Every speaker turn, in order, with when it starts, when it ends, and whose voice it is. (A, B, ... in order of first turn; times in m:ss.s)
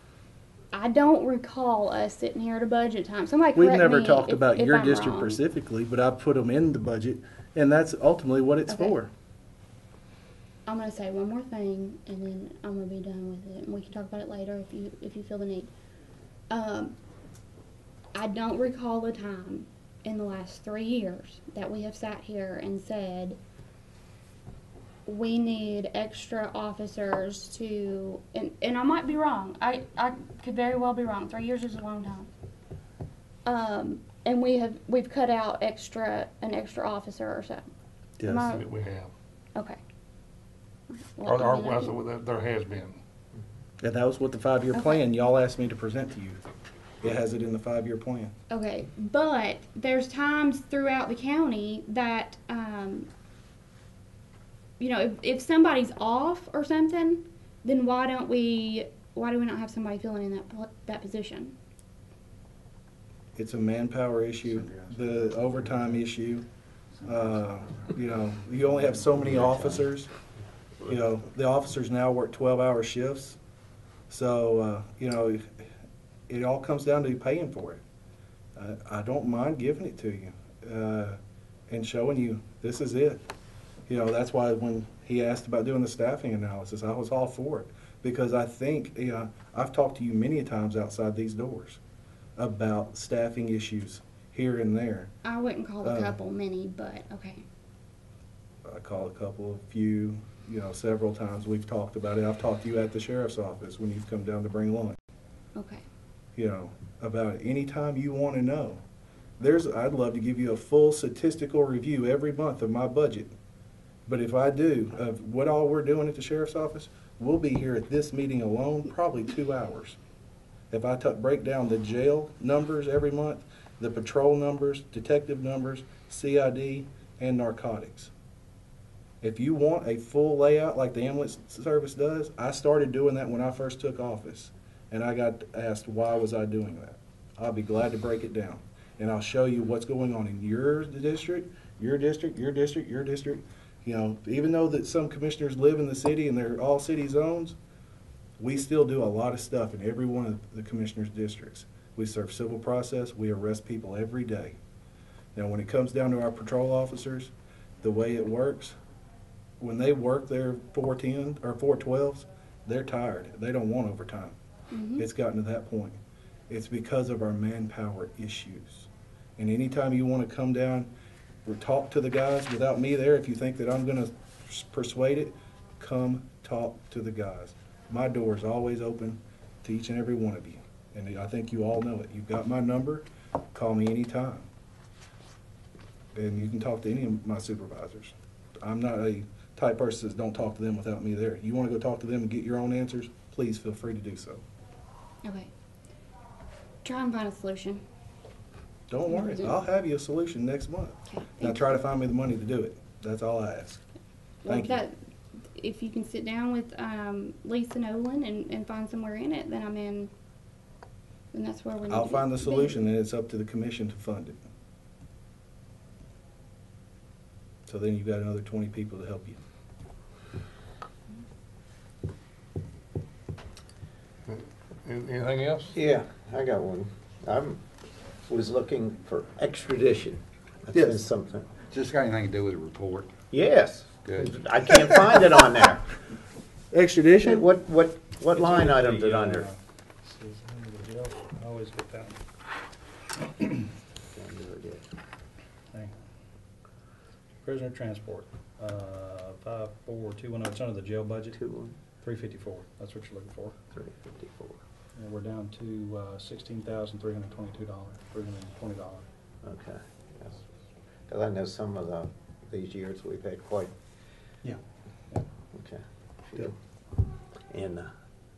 0:00.7-0:05.4 A
0:03.6-0:09.1 B
0:08.7-0:09.0 A
0:10.7-0:15.7 A
0:16.5-0:16.9 A
0:18.2-0:23.4 A
0:25.1-0:32.3 A
0:33.5-0:37.7 A
0:38.2-0:38.5 B
0:38.2-0:38.7 A
0:38.4-0:39.1 C
0:40.9-0:42.0 A
0:41.2-0:43.0 C
0:43.8-0:46.4 B
0:44.7-0:45.0 A
0:47.0-0:48.3 B
0:48.5-0:53.1 A
0:54.8-1:01.5 A
1:03.4-1:06.5 B
1:07.0-1:10.1 B
1:10.8-1:13.4 B
1:14.1-1:15.6 B
1:16.3-1:17.8 B
1:18.6-1:23.3 B
1:23.9-1:31.8 B
1:32.4-1:35.1 B
1:35.2-1:37.4 A
1:35.8-1:36.2 B
1:38.6-1:45.0 B
1:45.6-1:45.8 A
1:46.4-1:48.8 B
1:49.4-1:53.3 B
1:54.1-2:00.0 B
2:00.7-2:08.1 B
2:09.2-2:27.6 B
2:28.4-2:34.6 B
2:35.4-2:38.8 B
2:39.6-2:44.4 B
2:44.7-2:45.0 A
2:45.0-2:50.9 B
2:51.4-3:04.5 B
3:06.1-3:14.4 B
3:15.2-3:15.5 A
3:16.8-3:17.8 A
3:18.9-3:23.8 B
3:19.1-3:19.6 A
3:21.1-3:21.7 A
3:24.4-3:25.0 A
3:24.5-3:24.8 B
3:25.5-3:30.1 A
3:31.3-3:32.8 A
3:31.9-3:34.4 B
3:37.7-3:39.4 B
3:44.3-3:45.8 C
3:45.8-3:47.6 D
3:48.3-3:51.5 D
3:50.7-3:51.0 B
3:51.6-3:53.2 E
3:53.3-3:55.9 D
3:54.0-3:54.5 E
3:56.7-3:57.5 B
3:57.2-3:59.5 D
3:58.3-4:02.2 F
4:04.1-4:04.9 D
4:07.4-4:11.4 F
4:11.3-4:11.8 D
4:12.0-4:13.6 F
4:13.7-4:14.6 D
4:15.0-4:19.1 F
4:19.4-4:20.4 D
4:21.1-4:23.7 D
4:25.5-4:26.6 D
4:27.5-4:27.9 D